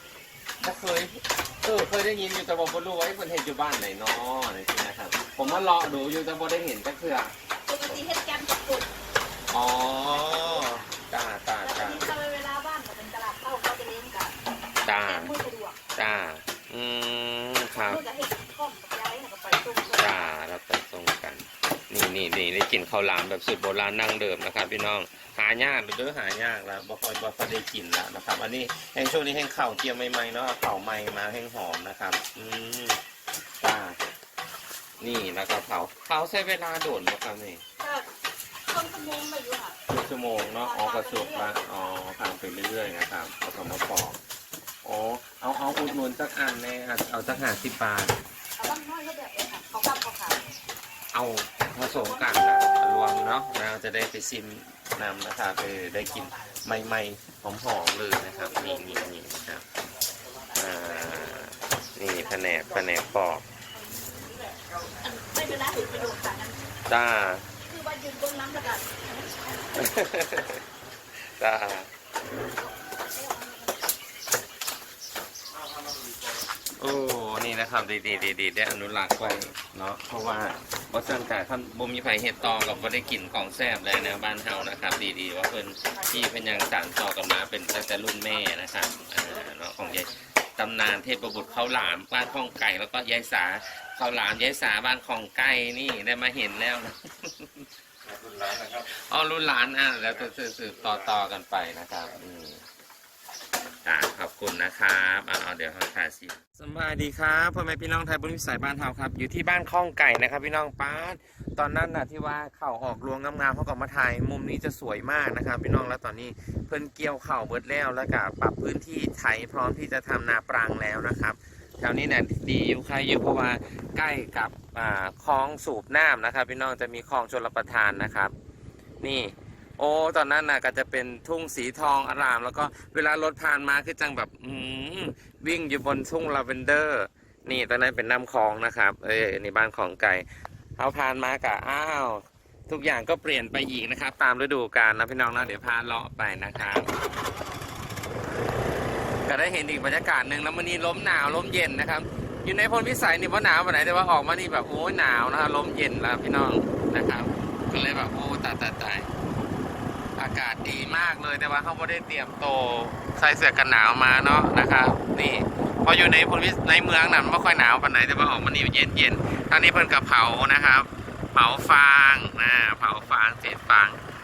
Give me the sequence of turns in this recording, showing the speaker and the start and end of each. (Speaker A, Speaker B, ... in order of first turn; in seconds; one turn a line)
Speaker A: 0.6-7.3
Speaker B: 7.7-9.0
Speaker A: 9.5-12.1
Speaker B: 10.0-10.9
Speaker B: 11.6-14.4
Speaker A: 14.8-15.3
Speaker B: 14.9-15.8
Speaker A: 16.0-18.0
Speaker B: 17.8-20.3
Speaker A: 20.0-33.0
Speaker A: 33.6-34.0
Speaker A: 35.0-37.6
Speaker B: 37.8-38.1
Speaker B: 38.7-39.8
Speaker A: 39.9-44.2
Speaker B: 40.6-41.6
Speaker A: 44.8-48.2
Speaker B: 48.6-50.4
Speaker A: 51.1-59.6
Speaker A: 60.5-63.5
Speaker B: 65.0-66.6
Speaker A: 66.9-67.5
Speaker B: 67.7-69.9
Speaker A: 69.8-70.6
Speaker A: 71.4-71.9
Speaker B: 72.8-73.8
Speaker A: 76.8-102.6
Speaker A: 103.8-128.3
Speaker A: 129.0-140.3
Speaker A: 140.8-146.9
Speaker A: 149.3-159.1
Speaker A: 160.2-174.0